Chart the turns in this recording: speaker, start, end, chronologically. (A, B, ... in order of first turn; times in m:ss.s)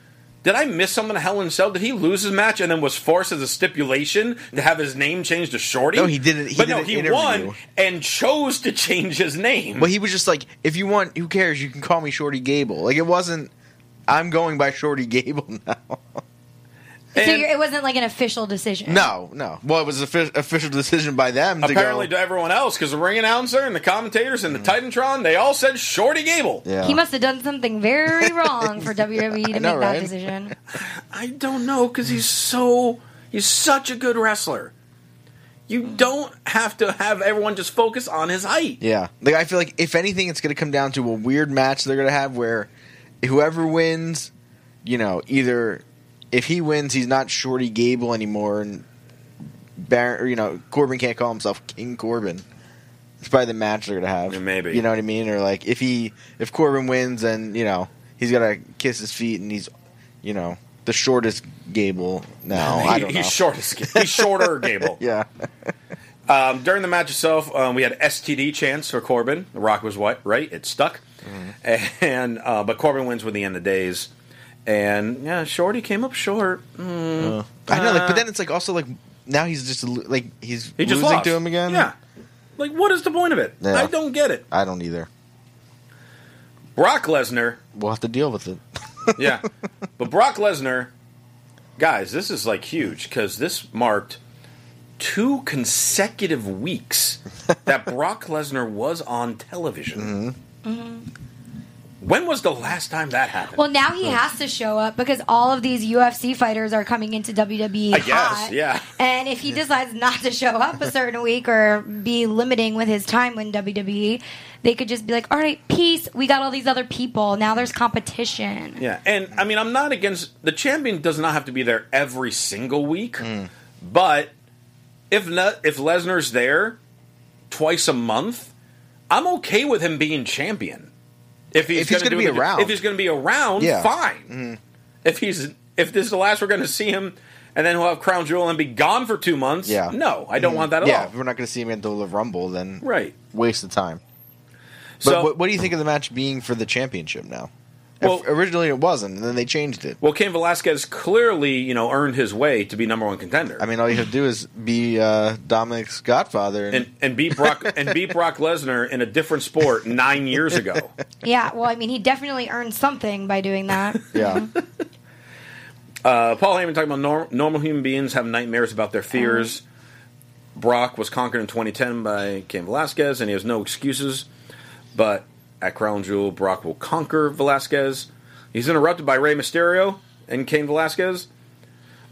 0:00.4-0:09.9 A
0:05.9-0:07.6 B
0:09.8-0:13.5 B
0:14.1-0:16.2 B
0:17.1-0:17.5 A
0:17.1-0:19.1 C
0:18.8-0:22.1 B
0:21.6-0:26.6 A
0:26.6-0:27.0 B
0:26.8-0:30.5 C
0:28.1-0:28.8 B
0:29.4-0:30.1 B
0:30.7-0:34.7 A
0:35.7-0:38.8 A
0:38.8-0:42.7 B
0:43.2-0:44.3 B
0:44.8-0:48.8 B
0:49.8-0:52.4 B
0:53.2-0:59.7 B
0:54.3-0:54.8 A
1:00.2-1:05.3 B
1:02.5-1:05.0 A
1:06.3-1:11.0 A
1:11.2-1:11.5 B
1:11.6-1:14.1 A
1:14.6-1:18.2 A
1:17.2-1:21.9 B
1:20.8-1:21.9 A
1:22.6-1:24.4 A
1:23.6-1:23.9 B
1:24.5-1:25.1 B
1:26.8-1:27.6 A
1:27.7-1:29.4 B
1:29.2-1:29.5 A
1:30.0-1:30.9 A
1:31.8-1:34.2 A
1:35.0-1:40.1 A
1:39.9-1:40.3 B
1:40.6-1:41.1 C
1:42.0-1:43.6 A
1:43.5-1:58.8 C
1:47.9-1:48.9 A
1:58.8-2:03.3 A
2:03.2-2:03.5 B
2:03.8-2:04.3 A
2:05.1-2:06.8 A
2:07.5-2:08.5 A
2:09.1-2:10.9 A
2:11.5-2:14.3 A
2:11.6-2:12.8 B
2:13.6-2:14.6 B
2:15.0-2:21.1 A
2:19.6-2:24.0 B
2:22.8-2:23.1 A
2:25.0-2:25.3 A
2:25.0-2:27.5 B
2:28.0-2:28.2 A
2:28.0-2:30.0 B
2:30.0-2:33.6 A
2:33.6-2:37.9 B
2:36.7-2:40.9 A
2:41.2-2:44.5 C
2:44.1-2:44.5 B
2:46.0-2:49.6 A
2:49.1-2:49.5 C
2:50.6-2:54.3 A
2:54.9-3:01.3 A